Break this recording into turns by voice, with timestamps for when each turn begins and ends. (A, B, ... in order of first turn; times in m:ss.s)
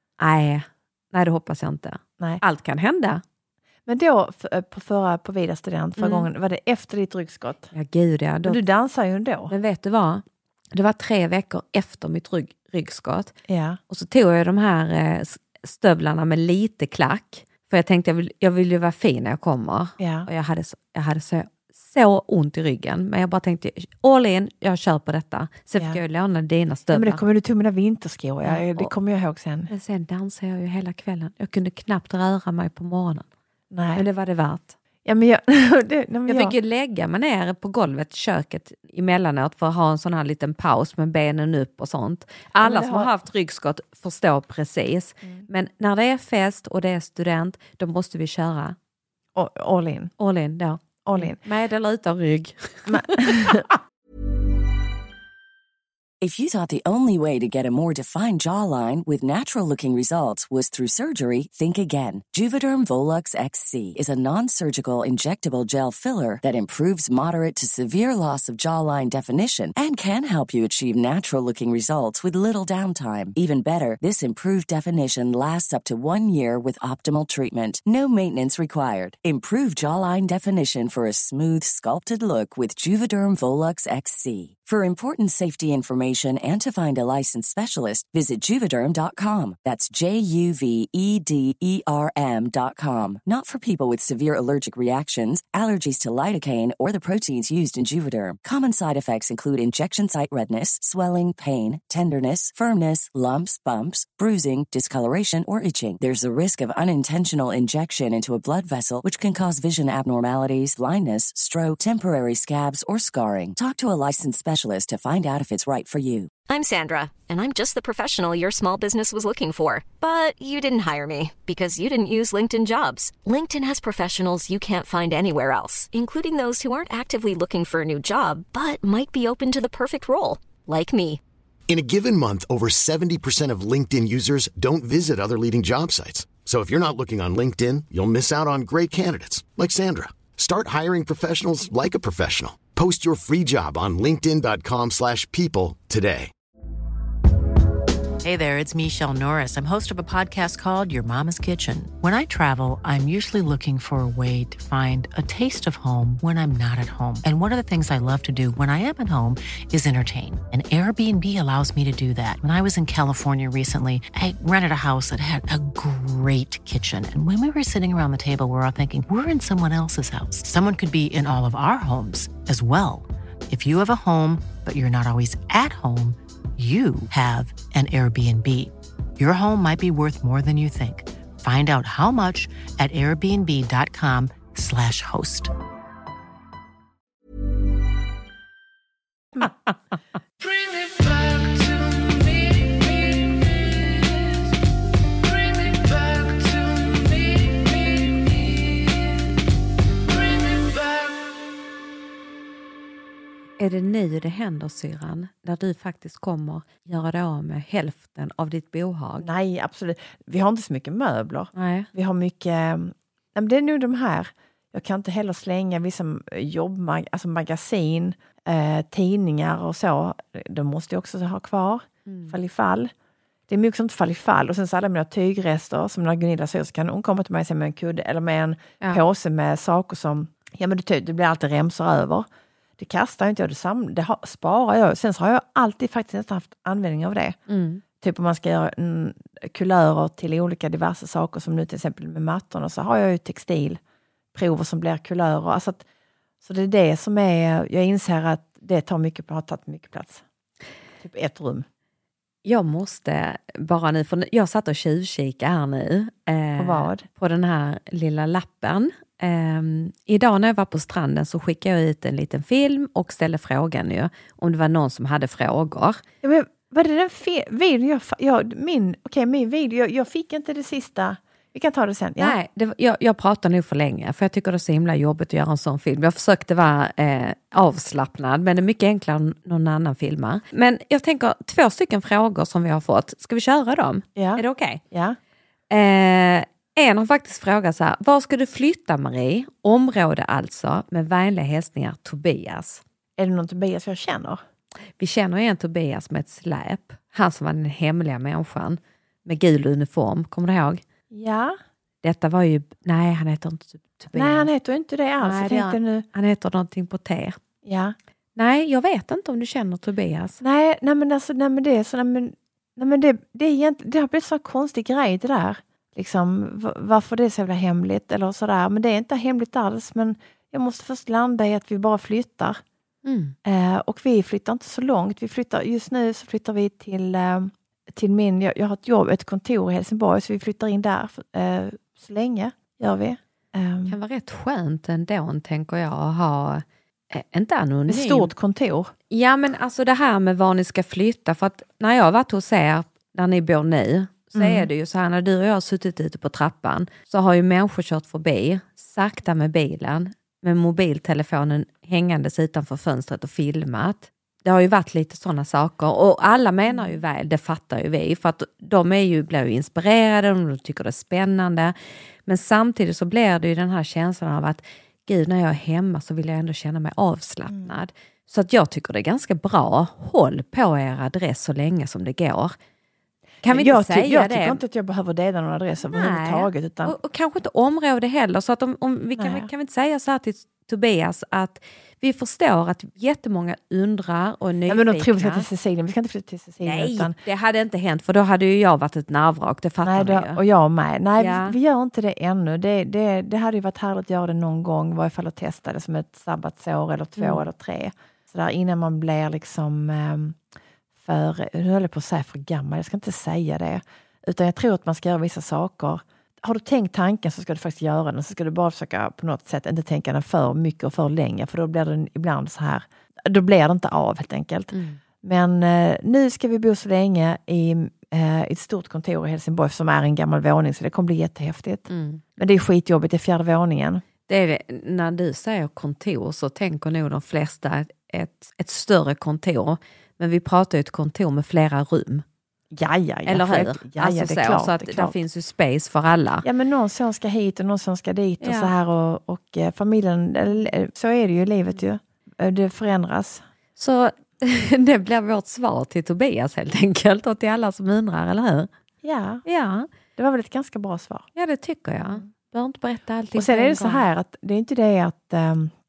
0:00.2-0:03.2 A
0:03.8-0:07.7 B
0:06.0-0:06.3 A
0:07.7-0:08.6 A
0:08.4-0:09.5 B
0:09.5-0:10.2 A
0:10.7-0:13.3 A
0:13.5-0:13.8 B
0:13.9-0:27.2 A
0:20.0-0:20.3 B
0:26.9-0:29.7 B
0:28.4-0:28.9 A
0:29.7-0:33.2 A
0:33.7-0:34.0 B
0:33.9-0:34.8 A
0:35.0-0:36.5 B
0:36.3-0:48.8 A
0:42.6-0:43.1 B
0:49.3-0:50.1 B
0:50.2-0:53.2 A
0:51.0-0:51.4 B
0:52.9-0:53.7 B
0:56.2-1:56.3 C
1:56.5-2:11.2 D
2:11.7-2:26.3 E
2:28.2-3:05.5 F
3:23.6-3:29.3 A
3:29.2-3:42.9 B
3:31.5-3:31.9 A
3:42.0-3:42.4 A
3:43.5-3:52.2 B
3:52.8-3:57.4 B
3:57.5-3:57.8 A
3:58.0-4:03.8 B
4:04.3-4:05.8 B
4:06.4-4:10.2 B
4:11.0-4:11.6 B
4:12.4-4:26.0 A
4:16.6-4:17.1 B
4:26.2-4:32.4 B
4:32.2-4:44.8 A
4:44.2-4:45.2 B
4:45.7-4:52.8 A
4:53.2-4:54.4 B
4:55.0-5:00.8 A
5:01.1-5:01.6 B
5:02.0-5:04.5 A
5:04.1-5:06.0 B
5:05.2-5:07.4 A
5:07.6-5:07.9 B
5:08.4-5:10.4 A
5:10.4-5:22.6 B
5:23.0-5:23.3 A
5:23.4-5:34.0 B
5:33.9-5:38.3 A
5:37.9-5:38.9 B
5:39.1-6:01.7 A
5:44.3-5:44.7 B
5:56.6-5:57.0 B
6:02.2-6:12.5 A
6:07.5-6:07.8 B
6:13.4-6:14.6 A
6:13.4-6:17.0 B
6:15.8-6:25.5 A
6:19.2-6:19.5 B
6:24.7-6:27.2 B
6:26.6-6:30.4 A
6:29.8-6:40.4 B
6:31.2-6:31.6 A
6:37.2-6:37.4 A
6:41.0-7:04.0 B
6:54.7-6:55.0 A
7:01.9-7:02.2 A
7:04.3-7:12.2 A
7:12.7-7:15.2 B
7:13.2-7:16.4 A
7:16.4-7:23.4 B
7:18.4-7:18.7 A
7:23.8-7:28.7 A
7:29.0-7:29.4 B
7:29.4-7:29.9 A
7:30.2-7:31.2 B
7:31.4-7:34.1 A
7:33.3-7:35.7 B